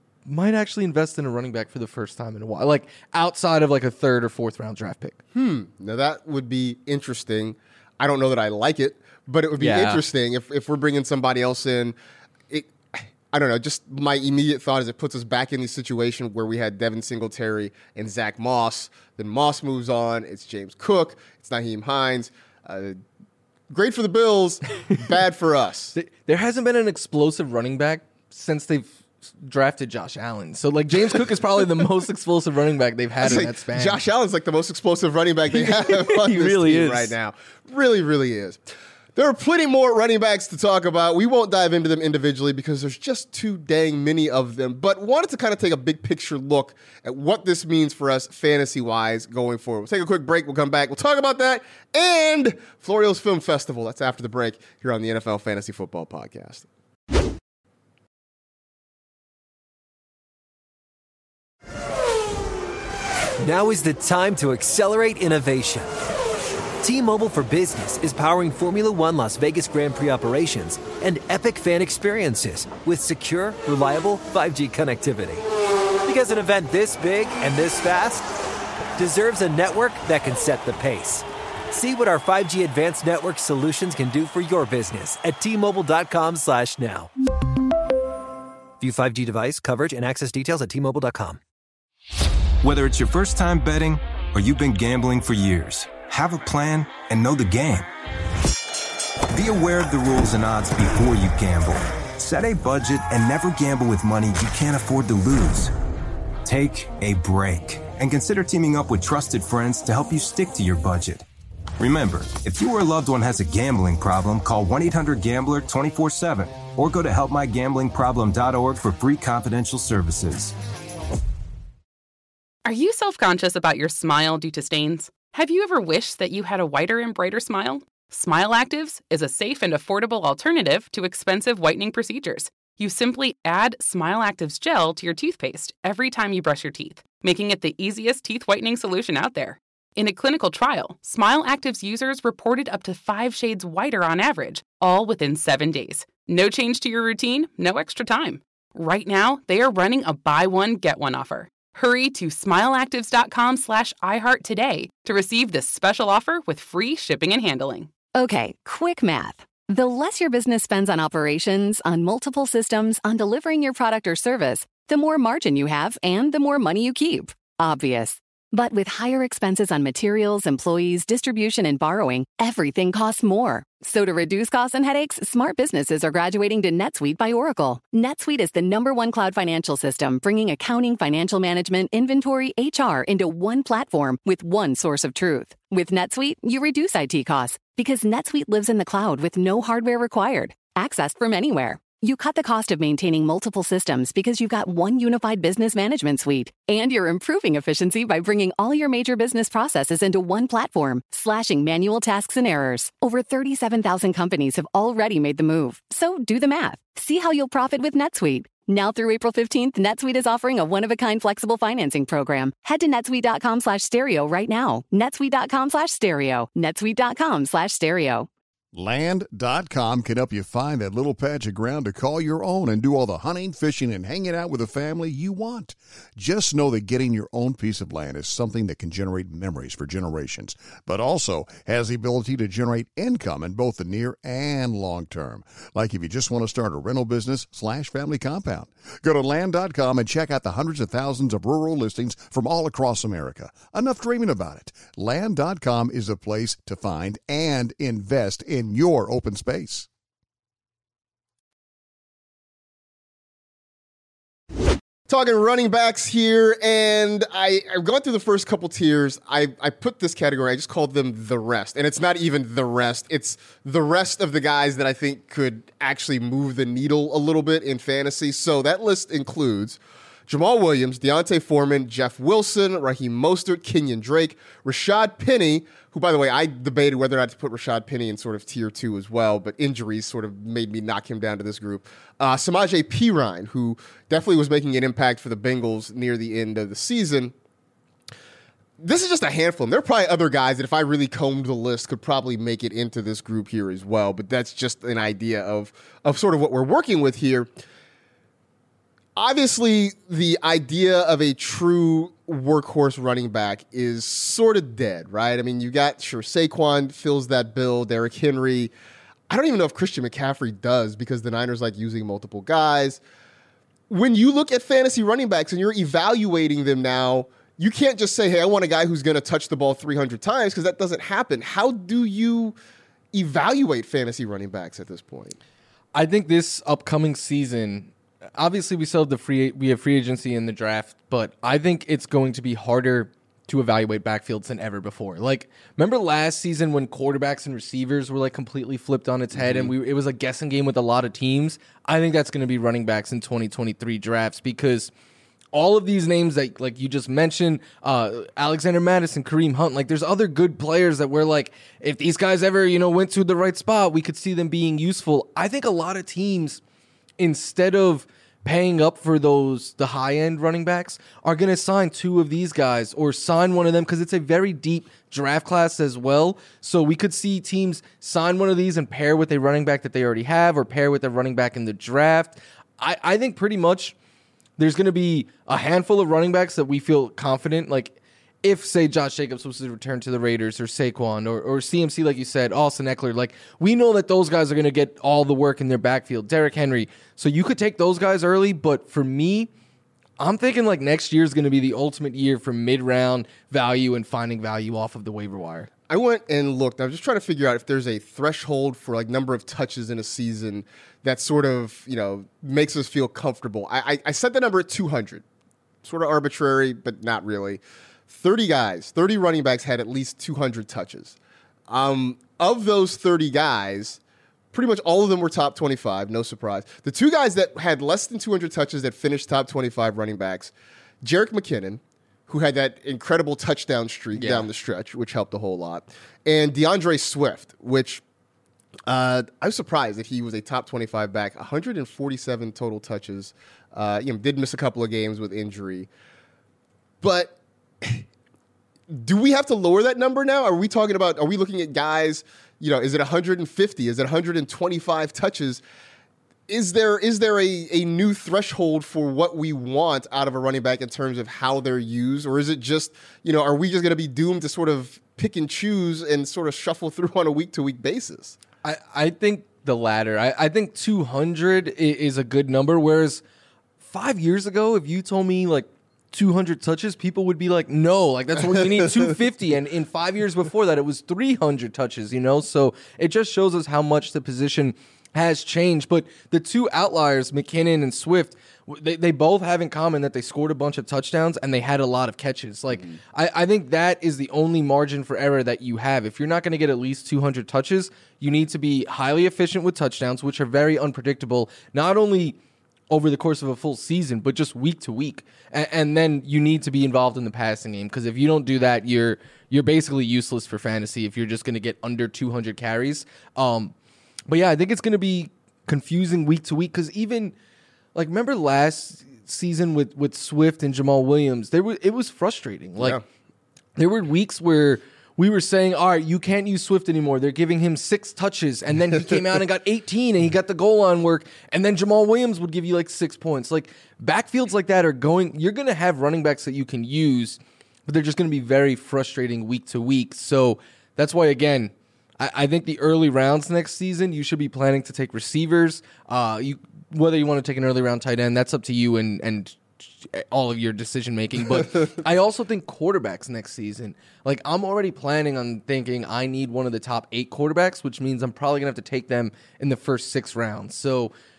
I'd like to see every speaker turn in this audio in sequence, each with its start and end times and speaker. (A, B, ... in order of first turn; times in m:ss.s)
0:00.3-0:05.2 A
0:05.3-0:12.0 B
0:09.6-0:10.0 A
0:12.5-0:23.0 B
0:23.7-0:26.0 B
0:26.0-0:34.0 A
0:33.2-0:38.6 B
0:35.5-0:37.1 A
0:39.2-0:56.6 B
1:03.4-1:05.9 C
1:06.8-1:15.4 C
1:16.0-1:18.3 C
1:19.0-1:27.1 C
1:28.8-1:31.4 C
1:32.6-1:37.9 D
1:39.3-1:45.7 D
1:46.4-1:51.3 D
1:51.8-2:00.5 D
2:02.7-2:37.9 E
2:38.2-3:38.3 F
3:38.7-4:09.9 G
4:15.1-4:47.3 B
4:48.8-4:57.5 B
4:59.2-5:08.7 B
5:09.3-5:13.0 B
5:13.9-5:22.6 B
5:23.1-5:25.4 B
5:26.0-5:44.9 A
5:39.3-5:39.7 B
5:45.5-5:56.6 A
5:57.2-6:14.0 A
6:14.6-6:29.5 A
6:30.2-6:35.7 A
6:35.9-6:45.2 B
6:45.8-6:51.2 B
6:51.7-6:54.0 B
6:54.5-7:08.0 B
7:04.2-7:04.5 A
7:08.9-7:15.9 B
7:17.0-7:18.0 B
7:18.9-7:25.6 B
7:26.5-7:38.4 B
7:38.6-7:43.2 A
7:43.8-8:12.4 A
7:48.6-7:48.9 B
8:12.9-8:23.7 A
8:24.3-8:27.3 A
8:28.0-8:33.0 A
8:33.8-9:11.1 A